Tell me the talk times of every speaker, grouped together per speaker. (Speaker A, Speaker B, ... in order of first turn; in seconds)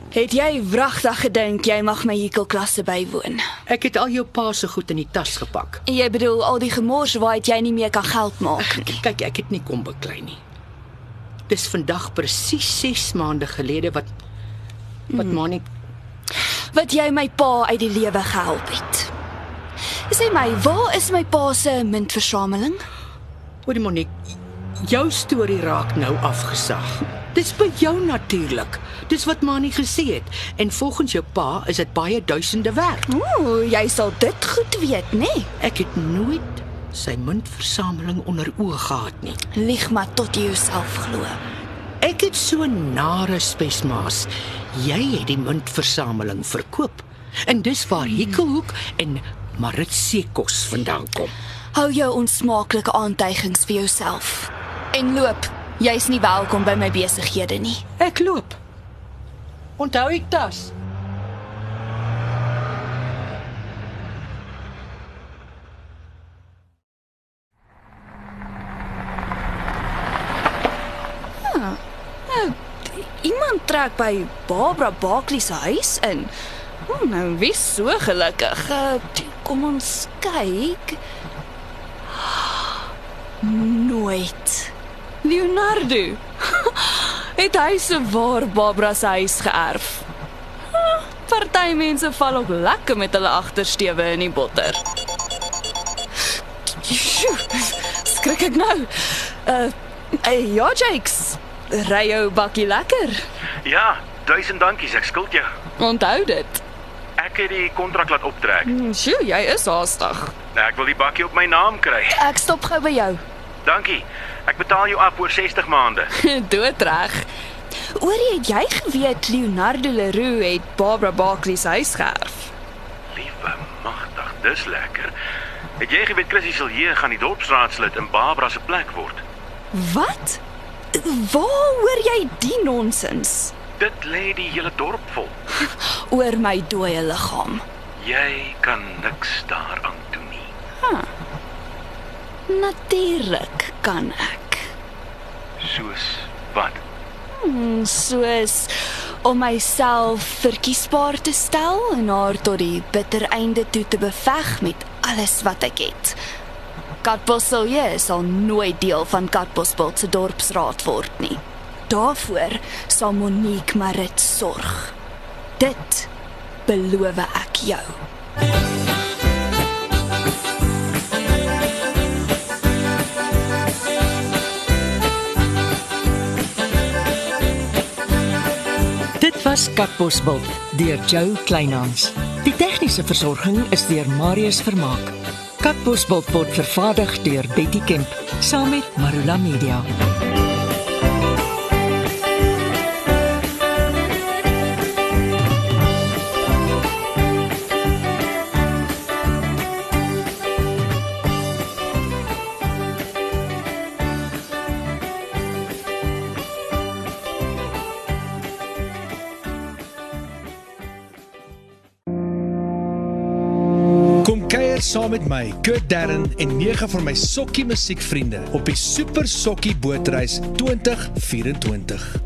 Speaker A: 0.1-3.4, 5.9-9.0, 16.7-19.1, 20.1-22.8, 33.1-35.5, 39.5-41.4, 51.7-57.8, 71.5-76.3, 76.9-81.0, 82.2-82.7, 83.4-90.1, 90.7-94.8, 96.7-103.2, 105.8-106.6, 108.6-110.3, 112.1-113.2, 116.1-117.3, 118.0-122.5, 129.7-130.4, 130.9-133.5, 136.1-137.6, 140.8-141.1, 142.5-144.7, 147.4-156.2, 157.0-164.9, 165.6-166.1, 166.7-168.0
Speaker B: 3.7-5.8, 8.6-10.4, 11.5-14.1, 15.1-15.7, 23.7-24.2, 24.8-33.1, 35.6-39.4, 42.0-51.3, 58.0-58.6, 59.8-60.7
Speaker C: 103.6-105.5, 107.2-108.7, 110.5-112.2, 113.6-116.1, 123.1-125.1, 125.8-129.2, 133.8-135.4, 138.0-140.5, 145.6-146.8
Speaker D: 179.2-189.9
Speaker E: 214.2-222.2